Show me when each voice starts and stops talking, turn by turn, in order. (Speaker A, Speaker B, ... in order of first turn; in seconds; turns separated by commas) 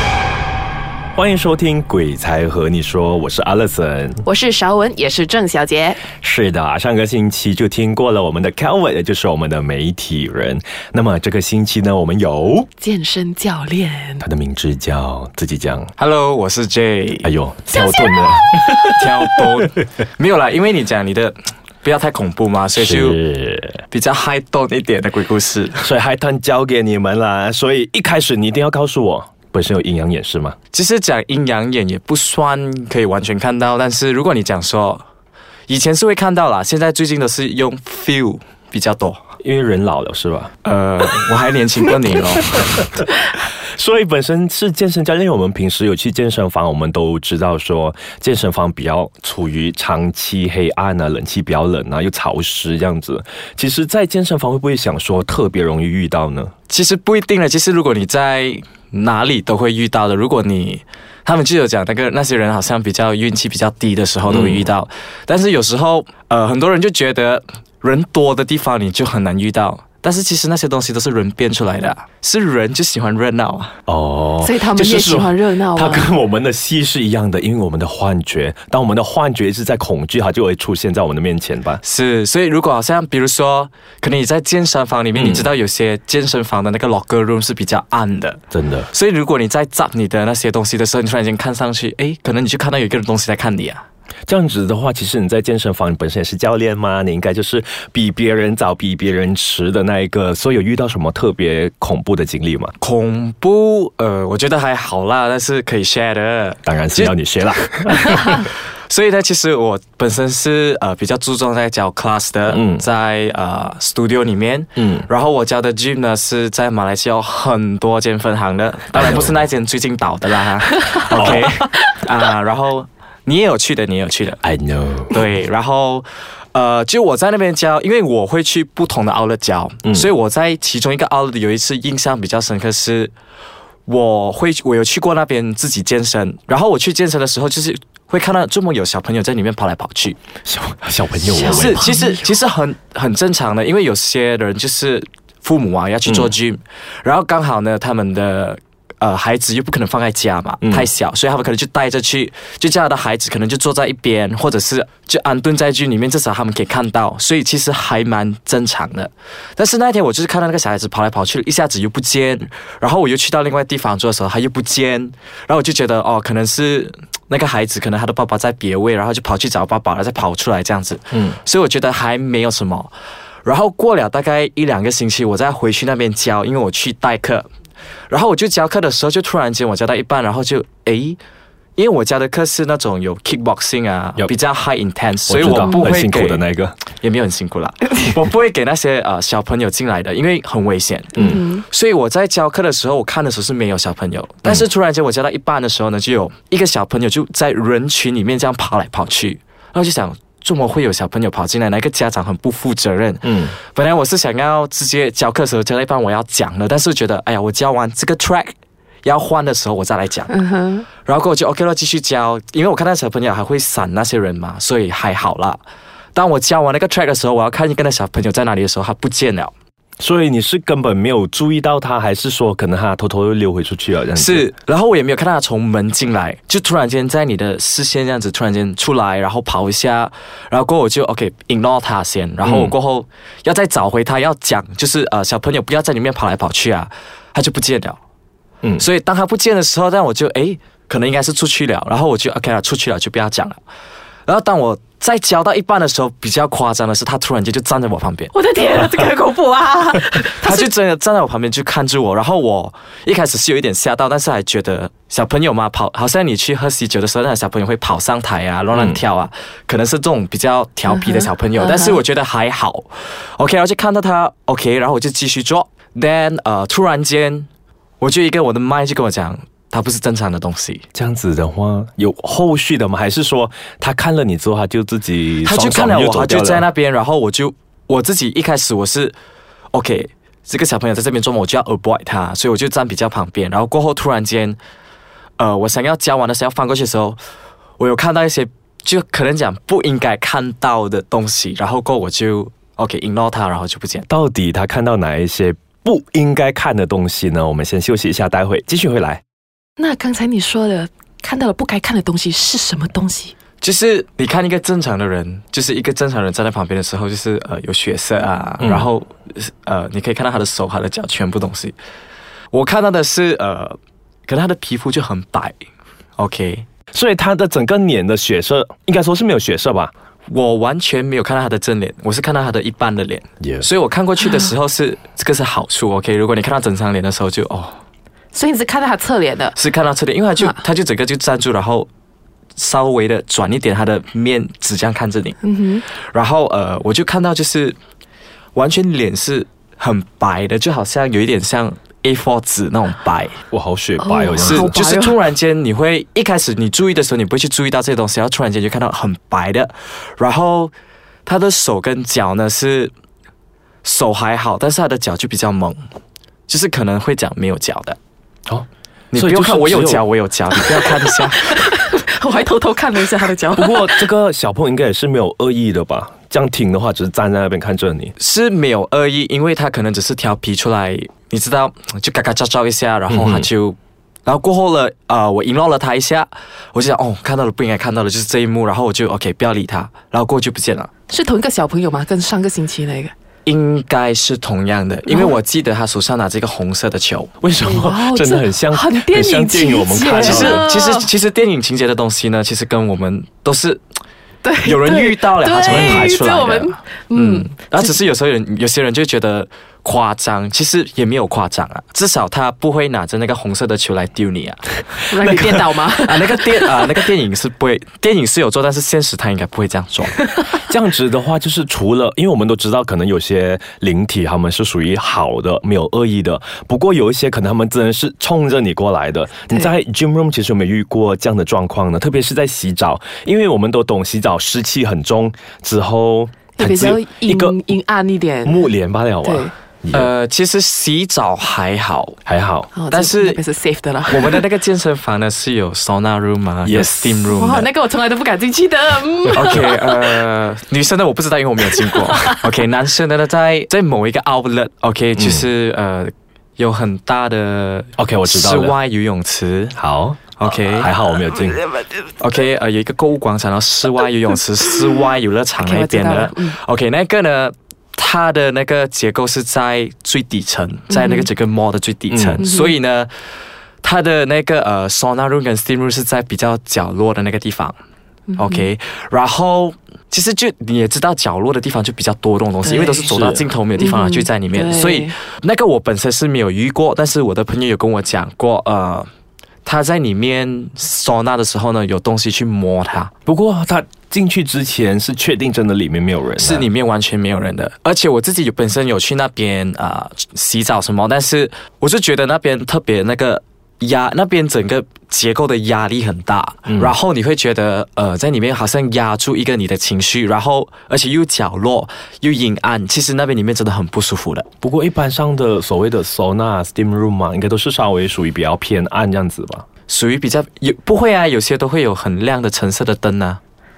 Speaker A: 1.1-4.2, Speaker B: 4.2-6.0, Speaker A: 6.2-12.7, Speaker B: 12.8-14.2, Speaker A: 14.2-15.9, Speaker C: 16.0-17.3, Speaker A: 17.2-19.1, Speaker B: 17.7-18.3, Speaker C: 18.9-23.2, Speaker A: 22.8-23.8, Speaker C: 23.9-25.9, Speaker A: 25.8-30.6, Speaker C: 30.7-35.0, Speaker C: 35.7-39.2, Speaker A: 39.4-40.5, Speaker C: 40.6-42.8, Speaker A: 43.0-56.5, Speaker C: 56.7-73.8, Speaker A: 64.3-64.7, Speaker A: 73.9-81.8, Speaker B: 74.4-76.1, Speaker C: 81.8-93.8, Speaker A: 85.1-85.5, Speaker A: 88.5-88.9, Speaker A: 94.3-102.7, Speaker C: 102.8-124.4, Speaker A: 106.7-108.5, Speaker A: 112.5-112.8, Speaker A: 114.8-115.1, Speaker A: 118.9-119.4, Speaker A: 121.0-121.6, Speaker A: 124.4-125.2, Speaker C: 125.1-133.1, Speaker C: 133.9-140.2, Speaker A: 140.4-141.9, Speaker B: 141.3-142.3, Speaker C: 141.4-172.9, Speaker A: 146.1-146.3, Speaker A: 150.6-150.9, Speaker C: 173.4-177.5, Speaker C: 178.1-181.2, Speaker C: 181.8-210.4, Speaker A: 185.3-186.8, Speaker B: 185.6-185.9, Speaker A: 191.2-191.4, Speaker B: 191.2-191.6, Speaker A: 203.2-203.5, Speaker B: 210.3-210.9, Speaker C: 211.0-215.6, Speaker C: 216.2-219.5, Speaker A: 220.0-224.5, Speaker C: 224.2-238.0, Speaker A: 232.4-232.7, Speaker C: 238.8-243.6, Speaker C: 244.3-248.3, Speaker B: 248.3-250.7, Speaker C: 250.4-267.5, Speaker A: 258.7-259.0, Speaker B: 261.1-262.0, Speaker C: 268.0-270.9, Speaker A: 270.9-276.6, Speaker C: 275.4-279.1, Speaker C: 279.7-284.6, Speaker C: 285.4-287.2, Speaker C: 287.8-294.1, Speaker A: 294.1-299.2, Speaker B: 299.8-303.3, Speaker C: 303.6-311.8, Speaker A: 308.6-308.9, Speaker C: 312.5-315.6, Speaker C: 316.2-316.7, Speaker A: 316.9-319.9, Speaker C: 320.3-327.8, Speaker A: 323.4-323.7, Speaker B: 328.3-329.6, Speaker C: 329.6-331.9, Speaker C: 332.6-335.4, Speaker B: 335.4-335.8, Speaker C: 335.9-337.8, Speaker C: 338.6-343.4, Speaker A: 343.5-344.8, Speaker B: 344.0-345.2, Speaker C: 344.4-350.7, Speaker C: 351.3-352.9, Speaker C: 353.8-355.9, Speaker C: 356.5-358.0, Speaker A: 358.5-360.1, Speaker C: 359.1-361.6, Speaker B: 360.8-364.0, Speaker A: 363.6-368.1, Speaker C: 368.2-380.9, Speaker A: 373.1-373.5, Speaker B: 381.1-383.1, Speaker C: 383.5-387.3, Speaker B: 385.1-385.3, Speaker A: 387.4-390.7, Speaker B: 387.6-391.1, Speaker C: 390.1-393.8, Speaker B: 394.4-397.9, Speaker C: 394.6-404.7, Speaker A: 395.7-396.1, Speaker B: 405.1-406.9, Speaker A: 405.2-405.7, Speaker C: 405.2-410.2, Speaker A: 410.7-427.7, Speaker B: 426.6-428.7, Speaker A: 428.4-430.1, Speaker B: 429.2-429.5, Speaker C: 429.9-432.2, Speaker A: 432.3-432.7, Speaker B: 432.8-434.4, Speaker C: 432.9-433.4, Speaker C: 434.1-437.7, Speaker A: 436.6-437.3, Speaker B: 437.3-440.0, Speaker C: 439.3-449.8, Speaker B: 442.0-442.4, Speaker A: 445.2-445.5, Speaker A: 448.0-448.8, Speaker A: 449.8-451.7, Speaker C: 450.4-450.9, Speaker C: 452.2-463.1, Speaker B: 455.6-456.6, Speaker B: 460.9-461.3, Speaker A: 462.1-462.4, Speaker B: 462.4-462.8, Speaker C: 463.8-467.8, Speaker B: 468.3-468.6, Speaker C: 468.4-479.1, Speaker B: 472.7-473.0, Speaker A: 473.0-473.5, Speaker B: 473.8-475.1, Speaker C: 479.7-483.1, Speaker A: 483.3-486.7, Speaker C: 486.4-504.5, Speaker A: 504.6-509.6, Speaker C: 509.9-513.4